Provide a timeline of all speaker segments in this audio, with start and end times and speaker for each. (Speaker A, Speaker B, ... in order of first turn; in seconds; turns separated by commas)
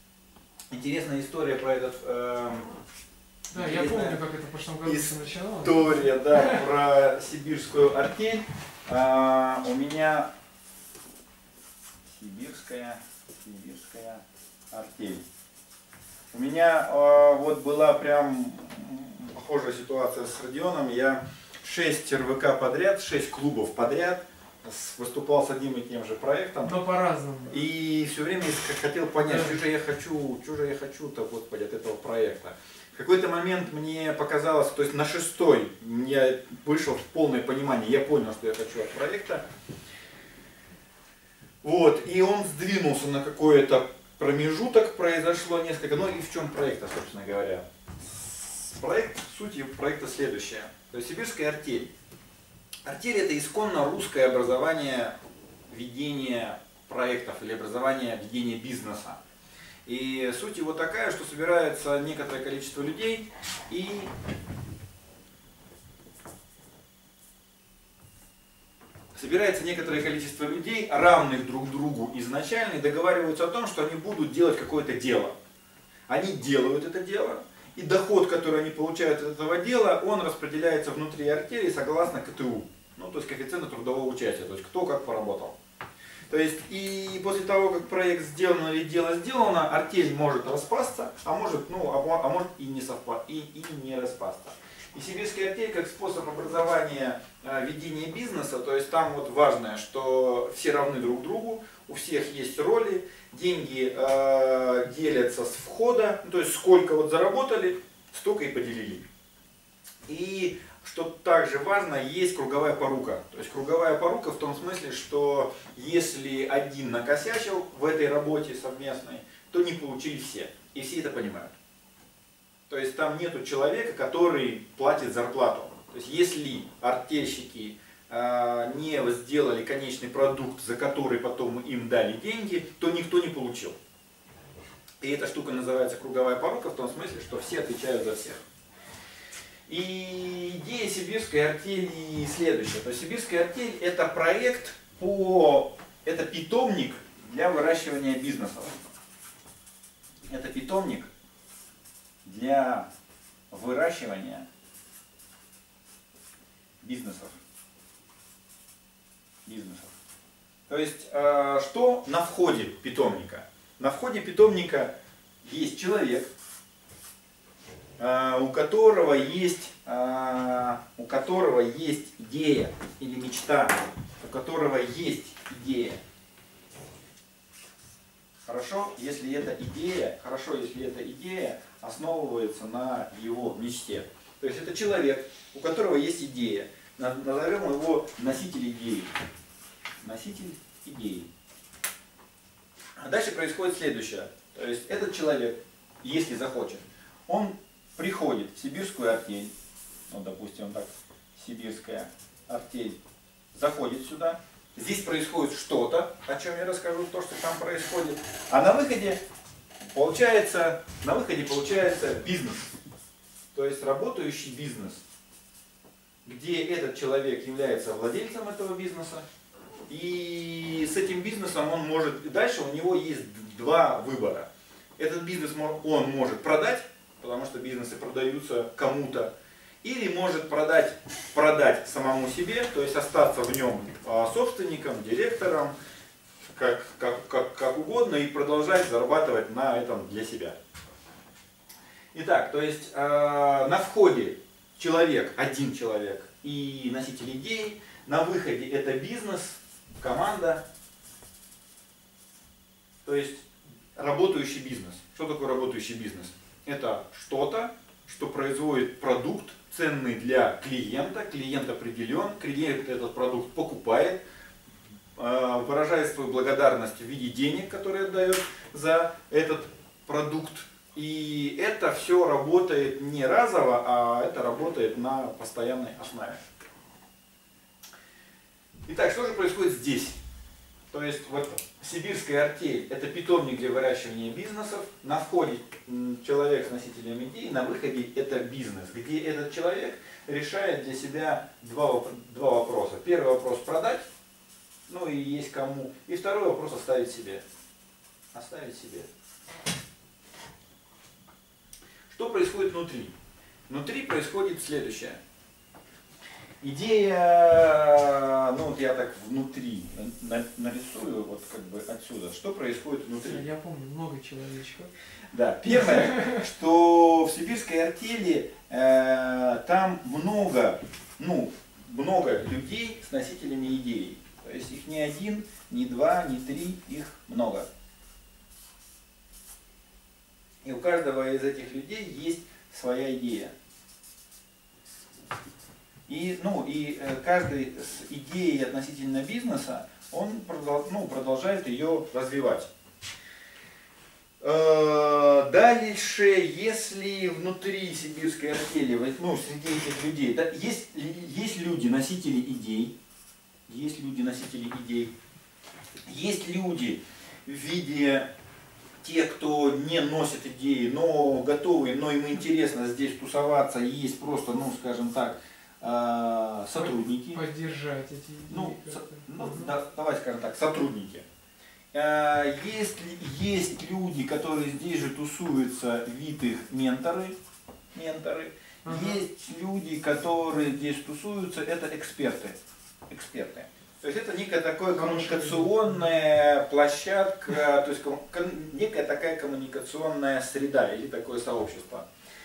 Speaker A: 0.7-2.7, Speaker A: 3.5-4.2, Speaker B: 3.5-6.6, Speaker A: 4.8-10.3, Speaker A: 12.1-15.2, Speaker A: 16.3-26.8, Speaker B: 26.6-27.6, Speaker A: 27.5-39.4, Speaker B: 29.2-29.6, Speaker A: 41.6-51.9, Speaker A: 52.9-55.1, Speaker A: 55.7-59.2, Speaker A: 59.9-64.1, Speaker A: 69.1-75.3, Speaker A: 76.1-85.5, Speaker A: 86.3-109.0, Speaker A: 110.1-121.5, Speaker A: 122.7-133.8, Speaker A: 135.0-138.4, Speaker A: 139.7-148.8, Speaker A: 150.3-151.1, Speaker A: 152.2-152.9, Speaker A: 153.5-154.4, Speaker A: 156.8-157.4, Speaker A: 159.4-159.9, Speaker A: 160.7-164.9, Speaker A: 165.4-166.3, Speaker A: 168.0-176.0, Speaker A: 178.4-189.1, Speaker A: 190.0-191.3, Speaker A: 193.0-199.5, Speaker A: 200.1-203.0, Speaker A: 203.5-209.2, Speaker A: 209.9-212.7, Speaker A: 213.5-215.0, Speaker A: 216.2-219.2, Speaker A: 219.9-229.3, Speaker A: 229.8-235.7, Speaker A: 236.5-240.6, Speaker A: 242.1-250.6, Speaker A: 253.0-264.2, Speaker A: 265.1-276.4, Speaker A: 278.9-280.2, Speaker A: 280.9-294.1, Speaker A: 294.9-297.4, Speaker A: 298.3-299.1, Speaker A: 302.1-303.1, Speaker A: 303.7-305.2, Speaker A: 306.6-313.4, Speaker B: 313.2-314.9, Speaker A: 315.3-327.7, Speaker B: 315.7-316.4, Speaker A: 330.6-333.5, Speaker A: 336.1-342.7, Speaker A: 344.4-352.9, Speaker A: 353.7-355.1, Speaker A: 356.0-358.3, Speaker A: 359.0-367.4, Speaker B: 366.7-369.7, Speaker A: 368.5-371.2, Speaker A: 371.9-377.4, Speaker A: 377.9-382.6, Speaker B: 378.8-379.2, Speaker A: 383.1-392.1, Speaker B: 384.9-385.9